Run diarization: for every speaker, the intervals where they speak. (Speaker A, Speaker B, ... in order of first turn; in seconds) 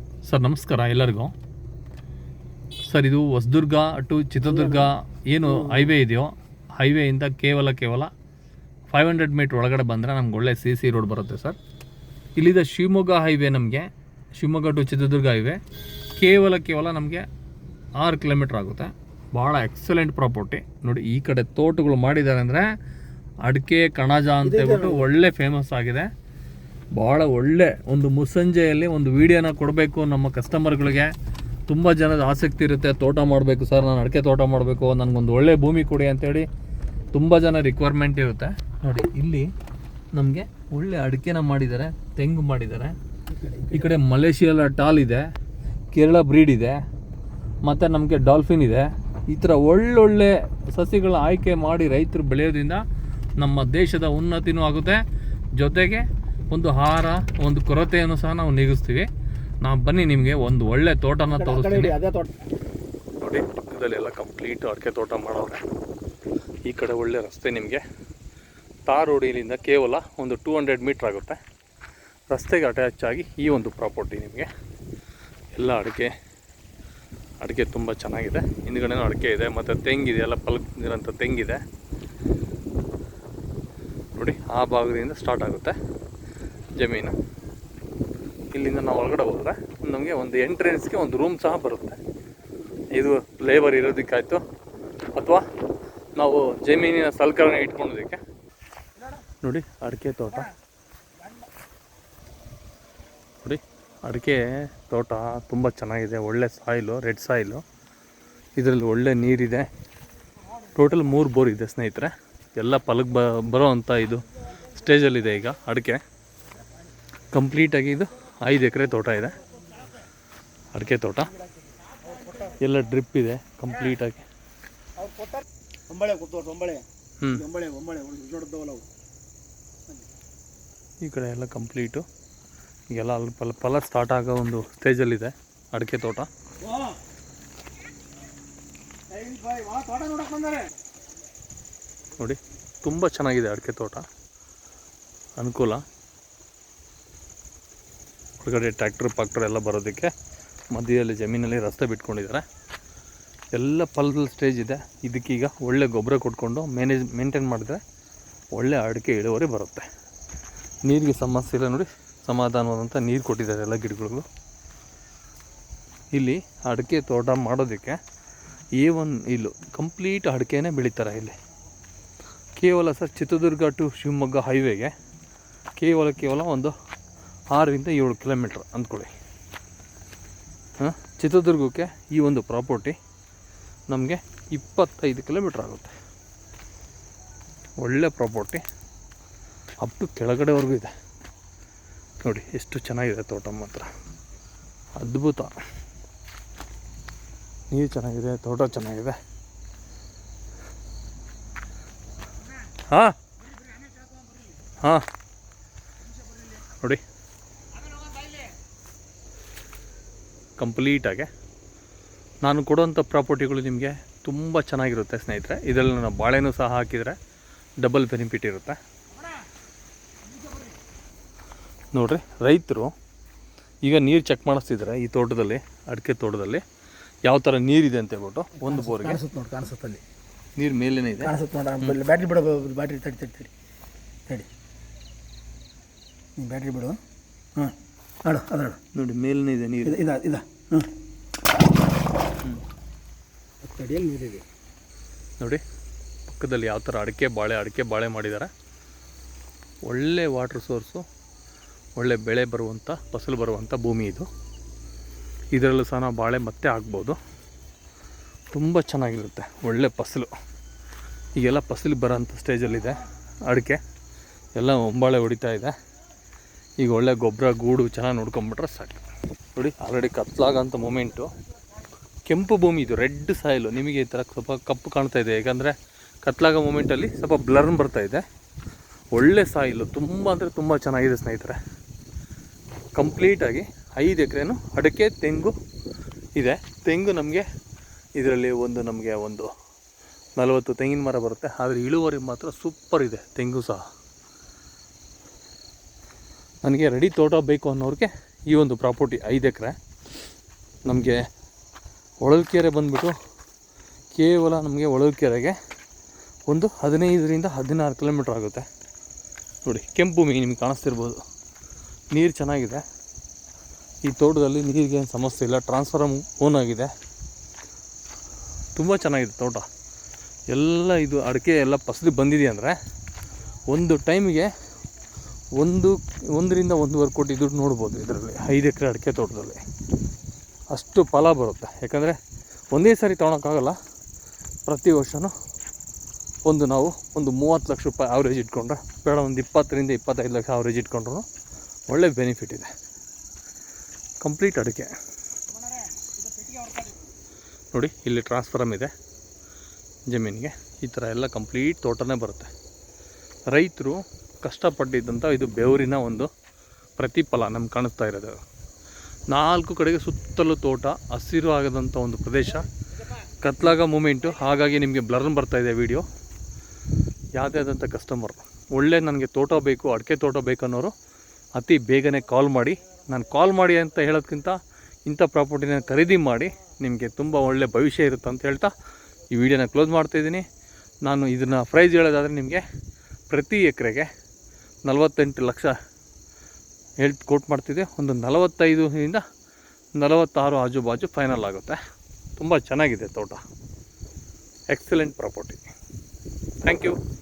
Speaker A: 0.3-1.3, 2.9-8.1, 8.9-11.6, 12.4-13.9, 14.4-15.6, 16.2-17.2, 18.0-22.6, 23.4-26.1, 27.0-31.1, 31.7-36.5, 37.1-39.5, 40.1-43.0, 43.7-45.2, 45.9-46.8, 47.6-52.8, 53.4-55.0, 55.6-59.1, 59.6-62.0, 63.2-65.6, 66.7-67.8, 68.9-71.4, 72.3-74.5, 75.5-76.1, 77.4-81.6, 84.2-85.8, 86.8-87.2, 88.5-92.0, 92.9-94.4, 95.2-95.4, 96.2-98.2, 99.4-100.5, 103.4-107.6, 108.6-109.7, 110.7-116.0, 117.3-119.4, 120.7-121.3, 122.6-124.2, 131.0-132.1, 132.9-136.3, 142.2-144.1, 145.4-145.8, 148.4-150.1, 150.7-152.4, 153.5-157.8, 158.5-159.9, 160.8-164.3, 166.1-168.0, 168.8-171.3, 172.6-174.9, 175.8-176.7, 177.5-179.1, 180.8-183.0, 183.9-185.9, 187.8-188.6, 189.8-190.9, 192.2-193.9, 195.0-195.6, 197.7-199.2, 202.9-203.2, 204.8-205.1, 206.7-207.0, 210.6-211.3, 212.4-217.2, 217.8-218.8, 221.9-222.9, 223.8-226.6, 227.2-229.2, 230.6-232.0, 238.9-240.0, 246.3-248.5, 249.9-251.1, 252.0-254.3, 255.5-257.2, 258.5-260.3, 261.4-263.8, 264.6-265.7, 266.8-269.0, 269.6-271.3, 272.3-278.2, 279.1-281.6, 282.9-285.6, 286.4-287.4, 288.2-289.5, 290.4-293.8, 296.6-299.8, 300.9-301.2, 302.2-303.1, 304.1-305.6, 306.5-308.7, 309.6-311.2, 312.1-312.8, 314.1-316.9, 318.8-319.7, 320.5-322.8, 323.7-324.5, 325.6-329.6, 330.7-332.2, 332.7-333.8, 334.7-335.3, 336.4-341.3, 341.9-342.7, 344.2-344.9, 347.7-348.9, 350.1-352.5, 353.5-356.3, 357.0-358.4, 359.3-362.7, 363.4-366.1, 367.4-370.9, 371.6-378.8, 379.3-380.4, 381.0-382.6, 383.3-384.1, 384.9-385.7, 387.0-389.2, 390.0-391.8, 392.4-393.4, 394.7-395.7, 396.6-397.0
Speaker B: 4.5-4.9, 5.4-5.9, 24.4-25.1, 43.3-44.0, 61.3-62.3, 125.9-128.9, 139.2-140.6, 228.6-230.0, 231.2-233.5, 236.4-237.0, 237.6-238.8, 239.8-240.9, 243.6-244.4